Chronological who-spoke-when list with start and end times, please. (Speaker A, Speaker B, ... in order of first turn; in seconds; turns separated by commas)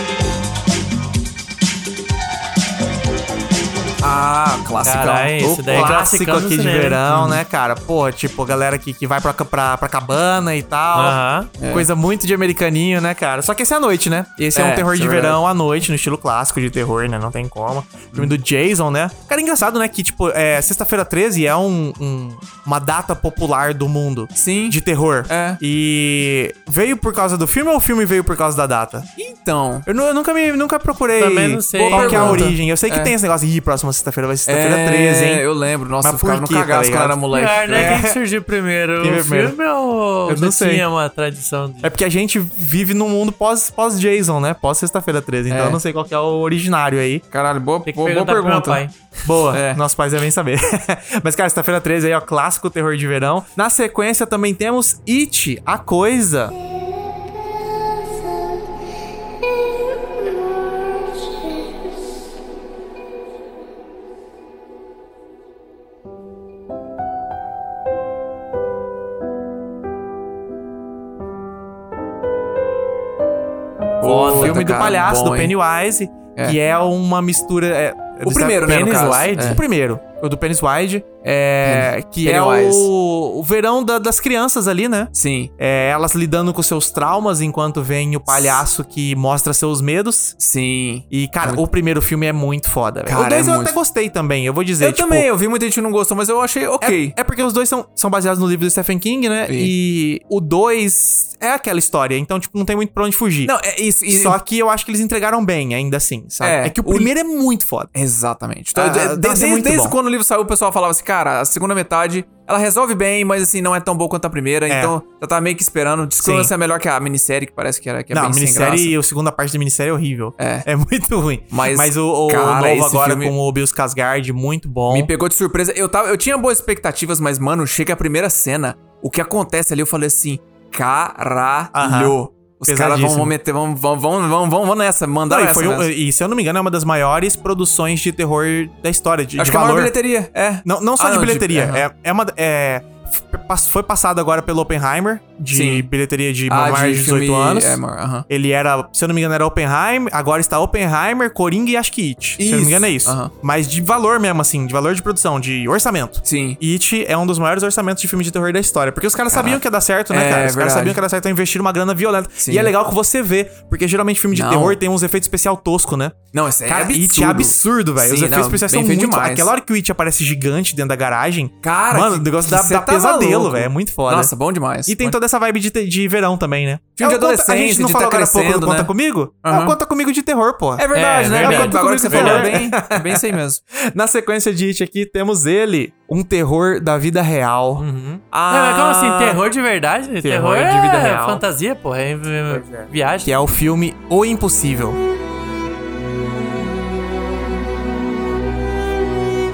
Speaker A: 4.0-5.9, Speaker B: 4.8-7.0, Speaker C: 5.4-11.2, Speaker A: 7.1-7.4, Speaker B: 10.9-11.5, Speaker A: 11.6-11.9, Speaker C: 11.7-29.1, Speaker A: 14.6-15.4, Speaker A: 24.4-25.6, Speaker A: 29.2-29.9, Speaker C: 29.9-35.5, Speaker B: 31.2-32.5, Speaker A: 31.8-33.1, Speaker A: 34.5-38.0, Speaker C: 36.0-37.2, Speaker B: 37.3-41.9, Speaker C: 37.7-38.2, Speaker C: 39.0-39.6, Speaker C: 40.3-40.9, Speaker C: 41.8-47.2, Speaker A: 45.5-45.8, Speaker A: 47.3-48.8, Speaker B: 47.9-48.9, Speaker C: 49.2-56.5, Speaker A: 49.5-49.8, Speaker A: 74.0-75.5, Speaker B: 74.0-74.6, Speaker C: 74.3-90.3, Speaker A: 78.2-79.6, Speaker B: 78.7-79.6, Speaker A: 81.6-82.9, Speaker A: 85.2-85.5, Speaker A: 90.4-91.6, Speaker C: 91.1-95.3, Speaker A: 93.1-93.8, Speaker A: 94.8-97.2, Speaker C: 96.8-103.5, Speaker A: 103.5-104.4, Speaker C: 104.1-107.9, Speaker A: 106.4-107.1, Speaker A: 107.9-119.0, Speaker C: 108.8-110.0, Speaker C: 114.7-114.9, Speaker C: 116.2-116.5, Speaker C: 118.1-125.1, Speaker A: 120.4-120.7, Speaker A: 121.5-123.3, Speaker A: 124.9-135.9, Speaker C: 131.7-133.3, Speaker C: 135.3-139.9, Speaker A: 139.4-141.8, Speaker C: 140.7-174.3, Speaker A: 145.5-145.9, Speaker A: 146.5-148.3, Speaker A: 152.4-153.3, Speaker A: 156.2-156.6, Speaker A: 159.3-161.0, Speaker A: 162.4-162.7, Speaker A: 164.3-164.8, Speaker A: 166.3-169.5, Speaker A: 171.6-175.2, Speaker C: 174.9-187.8, Speaker A: 177.0-178.9, Speaker A: 179.4-179.8, Speaker A: 180.8-183.6, Speaker B: 180.9-182.5, Speaker B: 187.8-193.3, Speaker A: 188.3-189.1, Speaker C: 190.2-191.4, Speaker C: 192.5-195.0